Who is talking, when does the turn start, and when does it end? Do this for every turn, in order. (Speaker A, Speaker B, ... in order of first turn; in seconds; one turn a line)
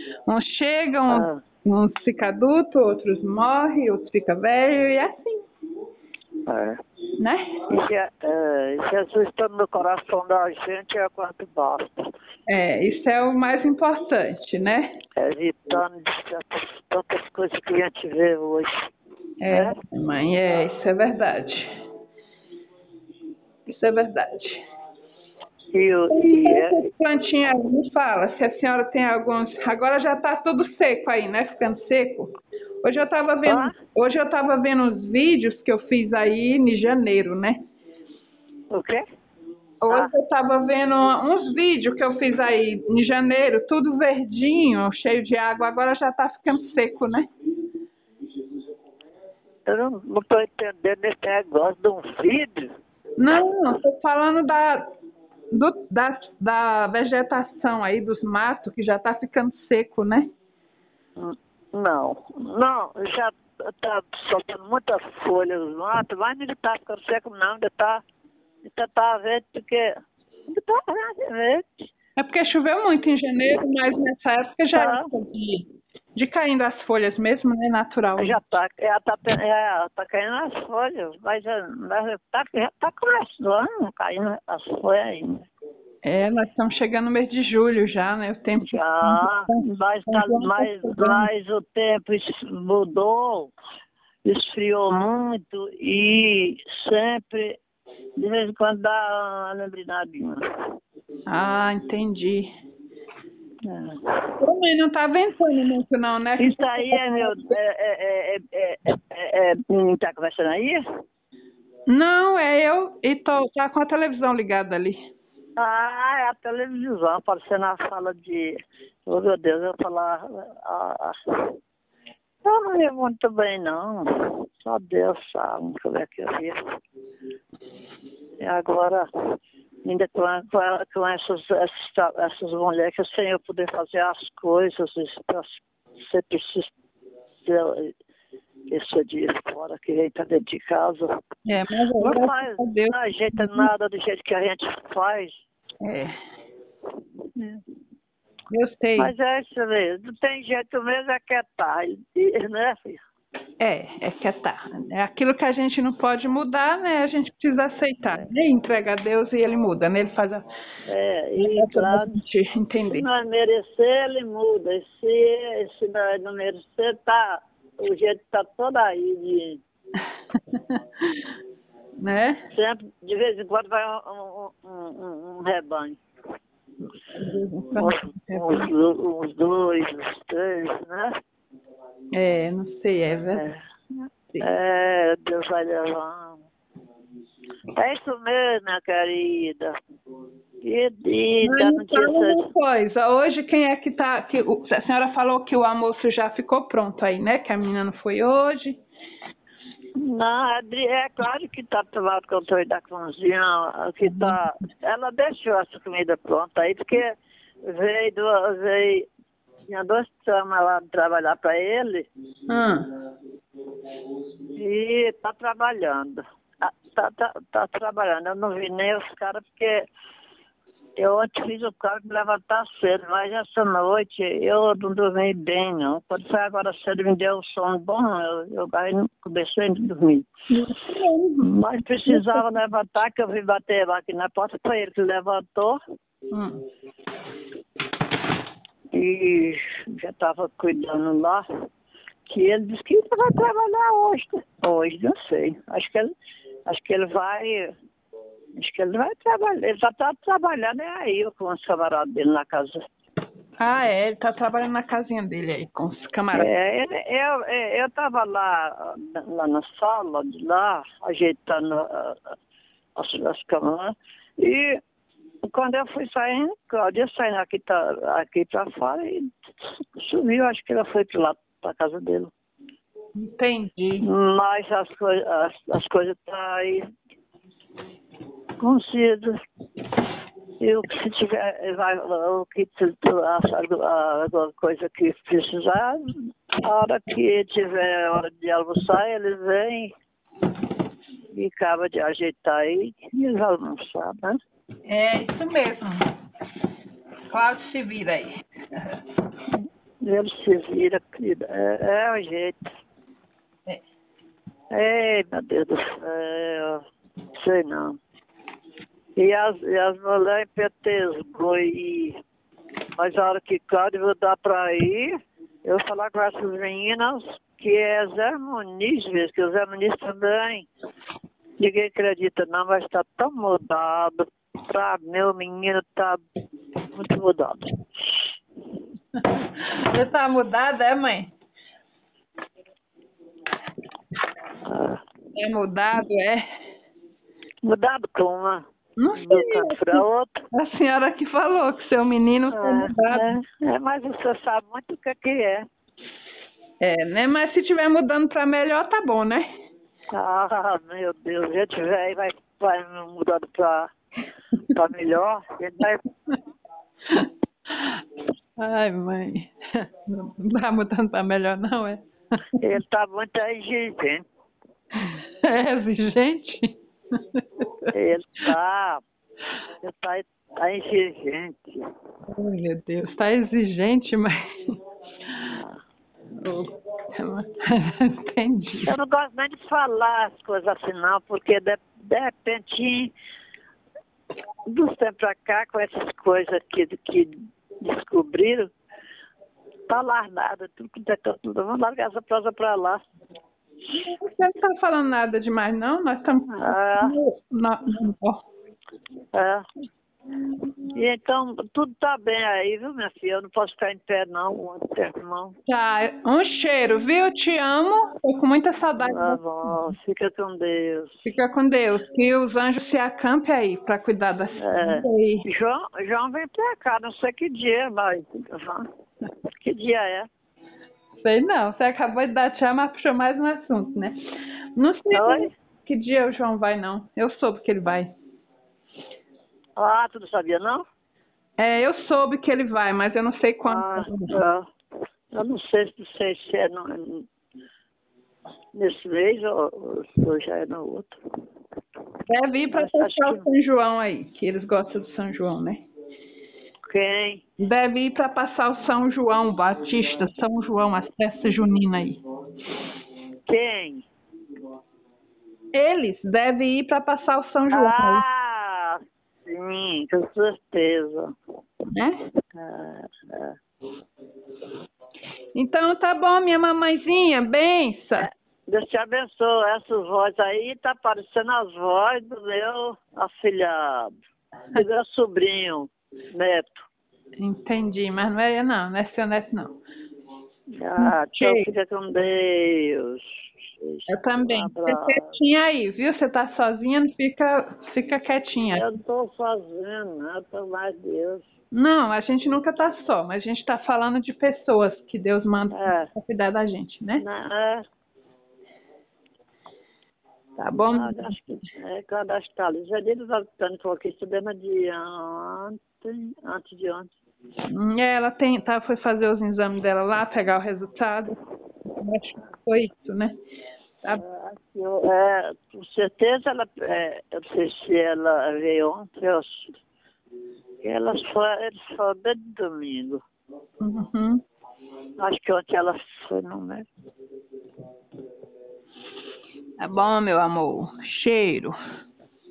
Speaker A: 0.3-5.5
Speaker B: 1.1-1.4
Speaker B: 6.5-6.8
Speaker A: 7.2-7.6
Speaker B: 7.7-12.1
Speaker A: 12.5-15.0
Speaker B: 15.2-18.7
Speaker A: 19.4-21.7
Speaker B: 19.5-19.8
Speaker A: 23.7-24.6
Speaker B: 25.7-26.8
Speaker A: 26.1-32.3
Speaker A: 32.8-37.6
Speaker B: 33.5-33.7
Speaker B: 38.7-39.0
Speaker A: 39.8-47.3
Speaker B: 49.7-52.7
Speaker A: 53.2-54.9
Speaker A: 55.5-60.3
Speaker B: 61.2-68.0
Speaker B: 68.6-69.9
Speaker B: 70.5-71.9
Speaker A: 72.2-78.4
Speaker B: 74.7-75.1
Speaker B: 78.2-85.5
Speaker A: 86.0-91.3
Speaker B: 88.7-93.5
Speaker B: 94.2-97.6
Speaker B: 98.2-100.4
Speaker A: 101.3-102.5
Speaker B: 103.7-104.3
Speaker A: 104.4-107.4
Speaker B: 106.4-110.8
Speaker A: 111.9-115.1
Speaker B: 115.6-121.5
Speaker B: 122.4-126.6
Speaker B: 128.4-129.1
Speaker B: 129.8-136.7
Speaker B: 137.4-137.9
Speaker B: 138.7-141.1
Speaker A: 141.4-143.7
Speaker B: 142.0-145.3
Speaker A: 145.8-146.2
Speaker A: 148.5-149.1
Speaker B: 149.0-153.0
Speaker A: 153.6-160.4
Speaker B: 160.9-162.2
Speaker A: 161.4-163.1
Speaker B: 162.9-169.6
Speaker A: 170.5-171.3
Speaker A: 172.0-172.4
Speaker B: 172.5-176.0
Speaker A: 177.1-178.7
Speaker B: 177.8-181.1
Speaker A: 182.1-183.4
Speaker B: 184.4-186.4
Speaker B: 187.8-189.7
Speaker B: 190.6-192.4
Speaker A: 191.4-198.8
Speaker B: 200.0-209.1
Speaker A: 204.0-204.4
Speaker B: 209.7-212.1
Speaker A: 212.5-212.9
Speaker B: 214.6-219.8
Speaker B: 221.0-230.3
Speaker A: 230.5-231.5
Speaker B: 231.4-235.8
Speaker A: 232.1-232.5
Speaker A: 236.3-236.6
Speaker B: 238.9-241.4
Speaker B: 242.3-246.1
Speaker B: 246.7-247.7
Speaker B: 248.6-252.8
Speaker A: 253.6-256.5
Speaker B: 256.3-262.2
Speaker B: 263.0-264.8
Speaker B: 265.4-272.3
Speaker A: 273.1-274.1
Speaker B: 274.0-276.8
Speaker B: 278.6-279.4
Speaker B: 280.6-289.9
Speaker B: 291.3-294.4
Speaker A: 294.9-296.1
Speaker A: 297.3-299.0
Speaker B: 300.0-302.7
Speaker B: 304.7-306.8
Speaker B: 307.4-308.0
Speaker B: 309.2-312.2
Speaker B: 313.0-315.1
Speaker B: 315.6-320.7
Speaker B: 321.6-326.2
Speaker B: 326.9-327.7
Speaker A: 329.1-331.3
Speaker B: 334.7-335.0
Speaker A: 335.4-336.4
Speaker B: 337.6-338.6
Speaker A: 339.0-343.4
Speaker B: 339.2-340.4
Speaker B: 342.5-345.6
Speaker A: 346.8-349.5
Speaker B: 350.1-353.9
Speaker B: 354.7-356.0
Speaker A: 357.1-358.0
Speaker A: 358.6-362.0
Speaker B: 362.6-364.2
Speaker A: 364.9-367.9
Speaker B: 367.9-369.0
Speaker B: 369.8-371.8
Speaker A: 372.3-374.8
Speaker B: 375.5-375.8
Speaker A: 376.4-378.9
Speaker B: 378.8-383.1
Speaker B: 384.7-388.7
Speaker B: 389.9-393.0
Speaker A: 393.9-398.4
Speaker B: 396.6-397.2
Speaker B: 399.3-399.7
Speaker B: 400.9-405.5
Speaker A: 405.7-409.8
Speaker B: 409.1-411.2
Speaker A: 411.3-415.5
Speaker B: 414.6-418.9
Speaker B: 419.5-420.3
Speaker A: 421.2-424.1
Speaker A: 424.8-428.1
Speaker B: 425.1-425.5
Speaker B: 429.8-430.8
Speaker A: 431.6-434.4
Speaker B: 433.7-434.7
Speaker B: 435.3-437.3
Speaker B: 438.7-441.2
Speaker A: 442.3-445.9
Speaker B: 442.7-443.5
Speaker B: 446.9-447.4
Speaker A: 447.6-452.2
Speaker B: 453.5-454.1
Speaker A: 455.7-458.2
Speaker B: 457.7-461.3
Speaker A: 461.9-462.2
Speaker B: 462.5-463.6
Speaker A: 465.6-468.3
Speaker B: 468.2-474.1
Speaker B: 474.7-476.9
Speaker A: 477.4-479.8
Speaker B: 480.7-485.3
Speaker A: 481.0-481.7
Speaker A: 484.1-488.9
Speaker B: 488.7-491.5
Speaker A: 491.7-497.2
Speaker B: 495.7-496.1
Speaker B: 497.2-497.8
Speaker A: 500.6-501.4
Speaker B: 500.9-507.1
Speaker A: 507.6-513.3
Speaker B: 514.2-519.7
Speaker B: 520.8-523.2
Speaker A: 523.8-524.4
Speaker B: 525.2-526.9
Speaker A: 529.8-531.8